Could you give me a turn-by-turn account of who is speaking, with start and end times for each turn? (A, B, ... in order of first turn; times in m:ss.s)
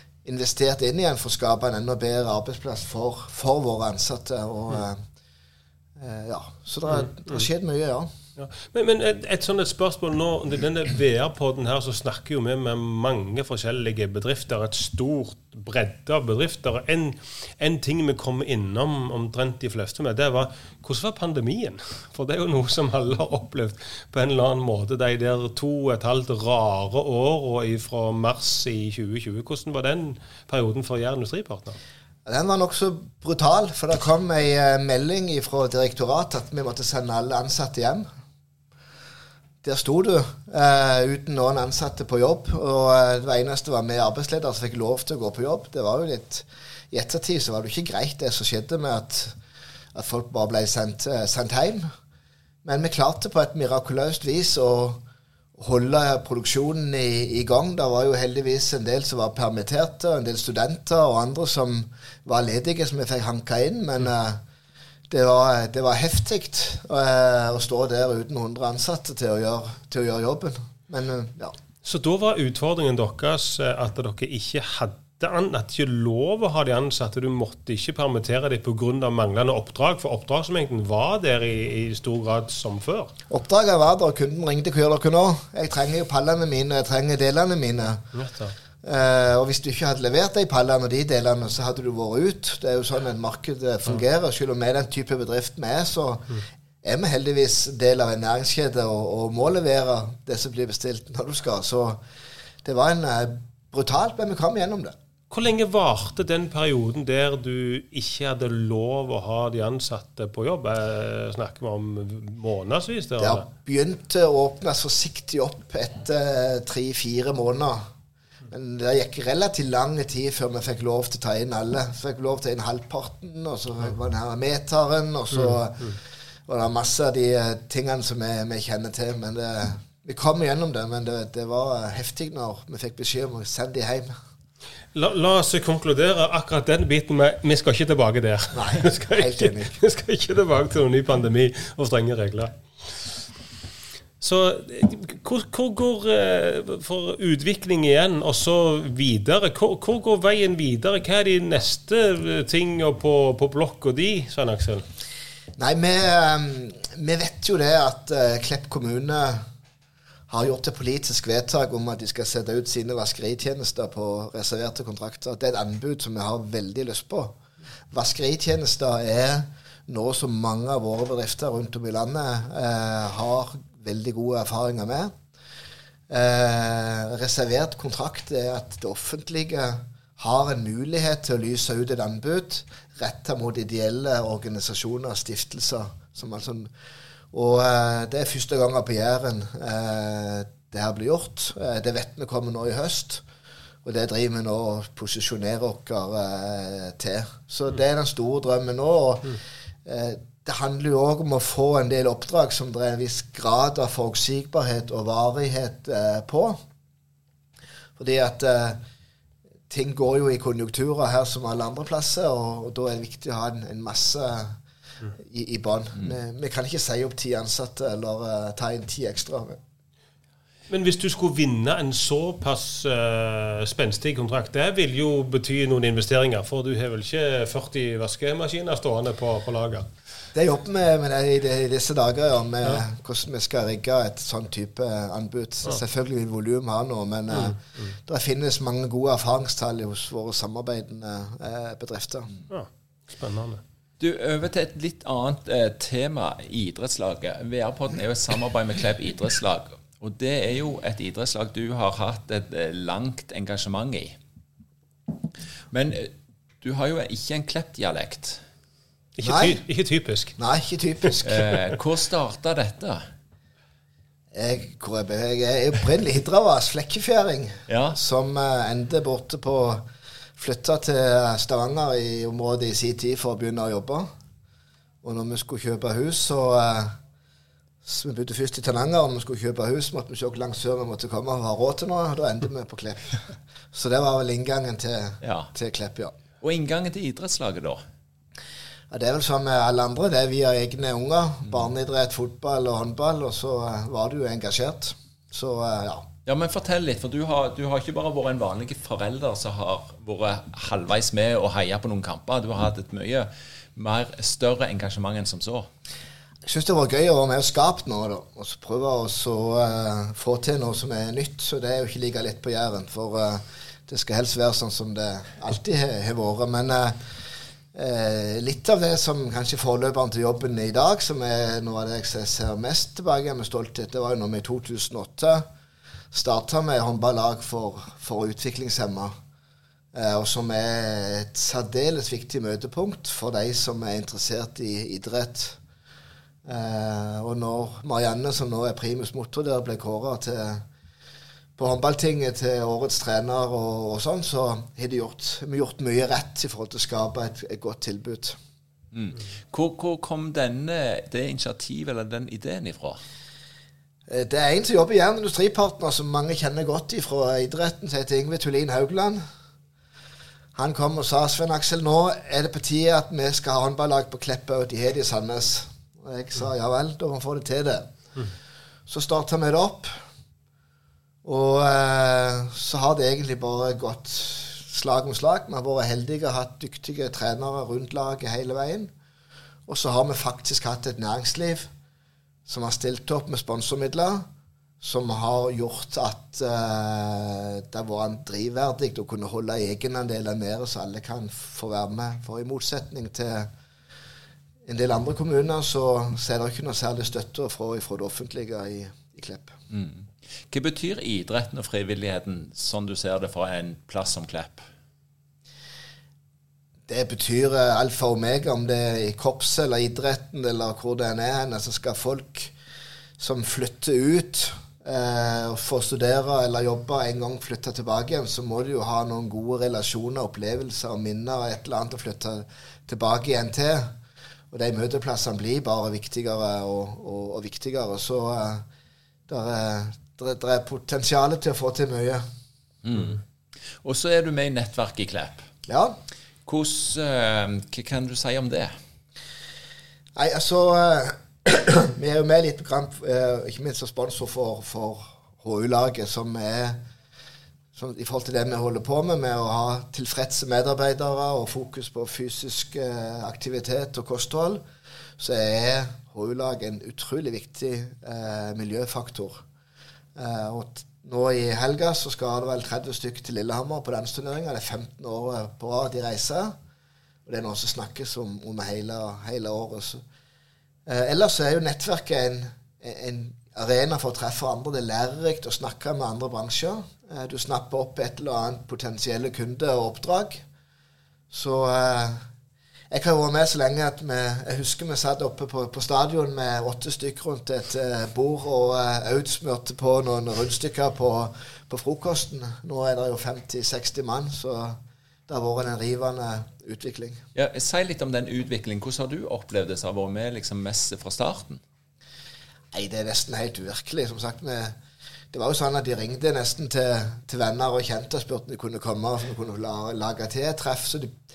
0:00.2-0:05.0 A
0:06.0-0:08.1 A
0:06.9-0:07.4 B
0:08.4-0:31.8 B
0:32.2-0:38.1 A
0:39.6-0:49.3 A
0:49.9-0:51.9 A
0:52.6-0:55.0 A
0:55.6-1:04.4 A
1:05.1-1:11.5 A
1:11.8-1:23.1 B
1:23.3-1:28.0 A
1:28.1-1:28.5 B
1:28.8-1:42.0 A
1:42.6-1:44.9 A
1:45.3-1:53.4 B
1:53.2-1:57.8 A
1:58.5-2:14.1 A
2:14.9-2:22.6 B
2:18.5-2:19.8 A
2:24.2-2:34.8 B
2:35.6-2:39.4 A
2:40.3-2:47.4 A
2:47.9-2:55.1 A
2:56.1-3:06.7 A
3:07.3-3:13.2 A
3:13.8-3:26.6 A
3:28.0-3:28.8 A
3:29.7-3:34.6 A
3:35.2-3:39.6 A
3:40.7-3:49.9 B
3:50.3-4:02.3 A
3:57.3-3:57.9 B
4:02.5-4:03.6 B
4:04.0-4:14.2 C
4:15.7-4:18.4 C
4:19.2-4:20.4 B
4:19.2-4:19.6 A
4:20.4-4:21.5 A
4:21.2-4:23.0 C
4:24.3-4:29.8 A
4:27.7-4:28.0 C
4:30.4-4:34.1 A
4:35.0-4:36.9 A
4:37.8-4:46.1 A
4:45.2-4:45.5 C
4:46.4-4:47.8 C
4:48.9-4:56.1 A
4:56.2-5:05.7 C
5:06.4-5:17.0 A
5:17.7-5:25.4 A
5:26.1-5:29.1 A
5:29.9-5:35.6 A
5:36.4-5:40.6 A
5:41.6-5:48.4 A
5:48.9-5:53.0 C
5:54.1-5:59.2 A
6:00.5-6:07.9 A
6:08.9-6:09.9 A
6:11.2-6:18.9 A
6:19.7-6:21.7 A
6:22.4-6:24.2 A
6:24.8-6:33.5 A
6:34.6-6:39.6 A
6:39.7-6:44.6 C
6:46.9-6:52.5 A
6:53.2-7:03.9 A
7:04.5-7:08.6 A
7:09.3-7:12.2 A
7:12.8-7:13.2 C
7:13.8-7:15.4 C
7:15.7-7:16.0 A
7:16.4-7:18.7 C
7:20.2-7:26.8 A
7:27.7-7:34.6 A
7:35.2-7:39.4 A
7:40.2-7:46.5 A
7:47.2-7:50.0 A
7:50.9-8:00.4 A
8:01.3-8:02.2 A
8:02.9-8:17.2 A
8:17.3-8:21.6 C
8:22.7-8:24.8 A
8:25.3-8:31.2 A